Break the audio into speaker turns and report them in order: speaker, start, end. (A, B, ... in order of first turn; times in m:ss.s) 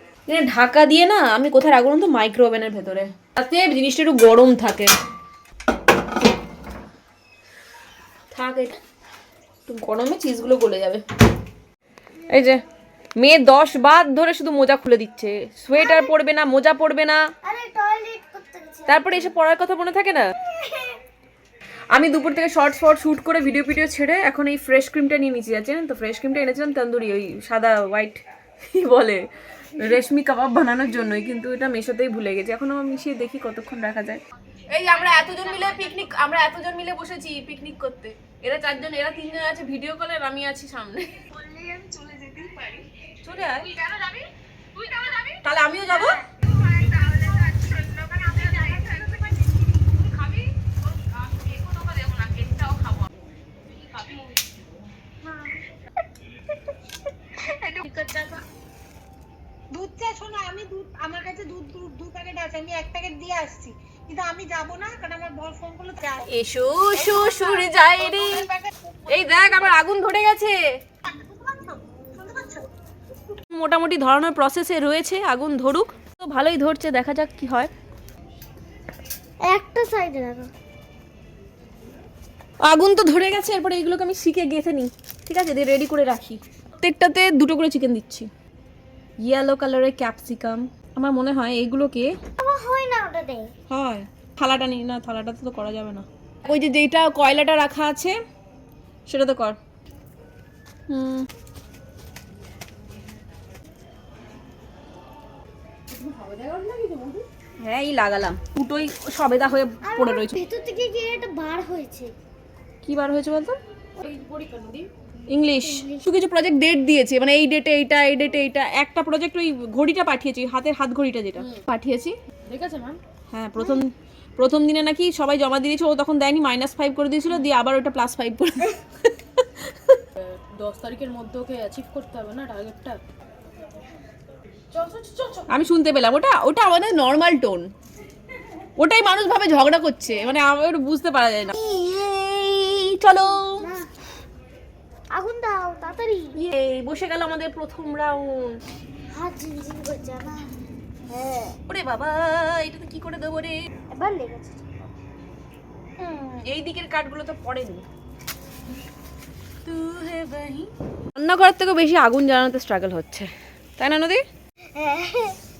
0:00.3-0:04.9 A
0:08.3-0:08.8 A
0:09.7-0:11.0 A
0:12.3-0:12.6 A
0:13.2-0:17.2 A
0:15.8-0:16.1 B
0:17.4-0:19.4 B
0:18.9-0:20.3 A
0:20.4-0:21.0 B
0:21.9-0:29.2 A
0:29.8-0:41.3 A
0:35.3-0:35.8 C
0:41.4-0:42.6 B
0:43.2-0:43.7 A
0:43.8-0:44.2 C
0:44.8-0:45.3 C
0:45.4-0:46.2 A
0:48.4-0:49.1 B
0:51.7-0:52.4 A
0:55.2-0:55.5 B
0:57.4-0:58.4 B
0:59.7-1:06.3 D
1:06.3-1:08.5 A
1:09.1-1:10.6 A
1:11.1-1:12.7 D
1:13.5-1:17.7 A
1:19.5-1:20.5 B
1:22.6-1:28.3 A
1:29.2-1:32.1 A
1:32.4-1:33.5 B
1:33.7-1:38.2 A
1:39.1-1:39.6 A
1:40.9-1:41.3 A
1:45.9-1:47.3 C
1:47.6-1:50.4 A
1:49.8-1:52.2 B
1:52.8-1:53.6 A
1:54.0-1:54.9 C
1:55.3-2:02.2 A
1:55.6-1:56.1 B
2:02.5-2:03.0 C
2:03.3-2:10.0 A
2:10.2-2:13.0 C
2:14.7-2:15.5 C
2:15.5-2:17.7 A
2:18.8-2:23.7 A
2:23.6-2:23.9 B
2:25.1-2:26.4 B
2:26.4-2:28.6 A
2:29.1-2:30.5 B
2:31.1-2:31.6 B
2:31.7-2:33.6 A
2:33.9-2:34.7 B
2:36.4-2:37.8 A
2:39.7-2:40.6 C
2:41.2-2:44.2 A
2:44.7-2:45.4 B